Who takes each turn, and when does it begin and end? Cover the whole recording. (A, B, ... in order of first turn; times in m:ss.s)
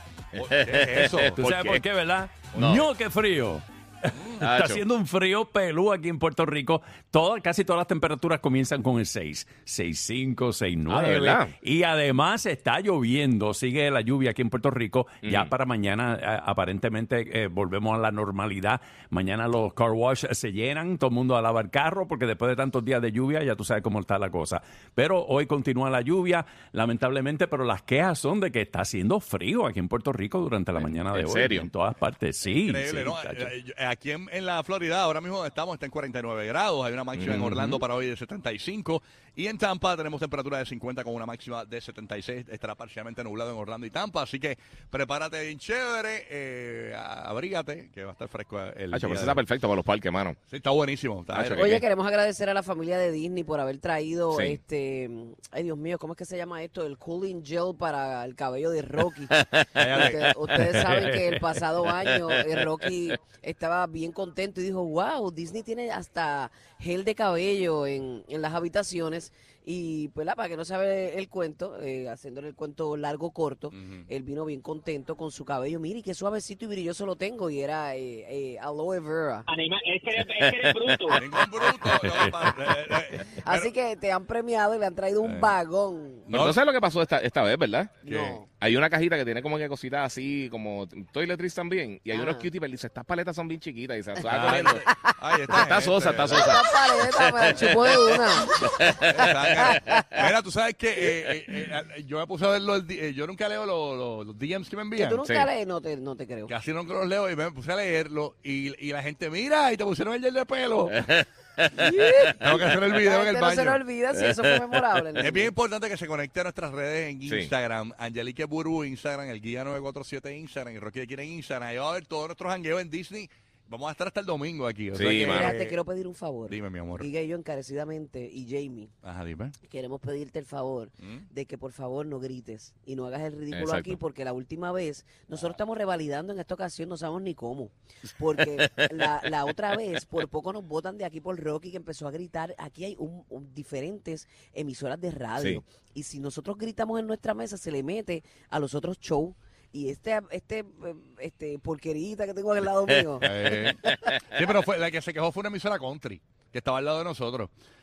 0:00.4-0:01.7 A
0:00.4-0:01.6 B
0:01.4-0:33.5 C
0:02.5-0:02.8 B
0:04.4-0:04.8 B
0:10.9-0:11.5 B
0:15.2-0:15.5 B
0:30.8-0:31.7 B
0:32.6-0:49.5 A
0:37.2-0:37.8 B
0:48.9-0:50.4 B
0:50.5-0:51.8 A
0:51.3-0:51.8 B
0:51.5-1:19.5 D
0:54.3-0:54.6 B
0:59.8-1:00.3 A
1:00.7-1:01.2 C
1:13.7-1:14.1 A
1:19.5-1:21.4 E
1:20.2-1:22.5 B
1:21.1-1:23.7 A
1:23.4-1:26.3 D
1:25.2-1:25.6 A
1:26.3-1:28.0 B
1:26.3-1:26.6 A
1:28.0-1:28.5 D
1:28.0-1:28.4 A
1:28.6-1:34.8 B
1:32.1-1:32.5 D
1:34.2-1:36.6 A
1:34.5-1:34.9 D
1:35.5-1:38.1 B
1:36.3-1:40.0 D
1:38.8-1:40.0 B
1:39.0-1:45.2 A
1:45.0-1:46.5 D
1:45.2-1:45.5 B
1:46.5-1:51.2 A
1:51.7-1:55.5 D
1:52.4-1:53.8 A
1:54.2-1:54.8 B
1:55.2-2:05.8 A
1:57.3-1:57.5 B
2:04.9-2:05.6 B
2:05.0-2:08.9 D
2:06.5-2:07.1 A
2:09.0-2:09.6 A
2:09.6-2:33.6 D
2:13.5-2:14.0 B
2:25.4-2:25.6 B
2:33.2-2:37.5 A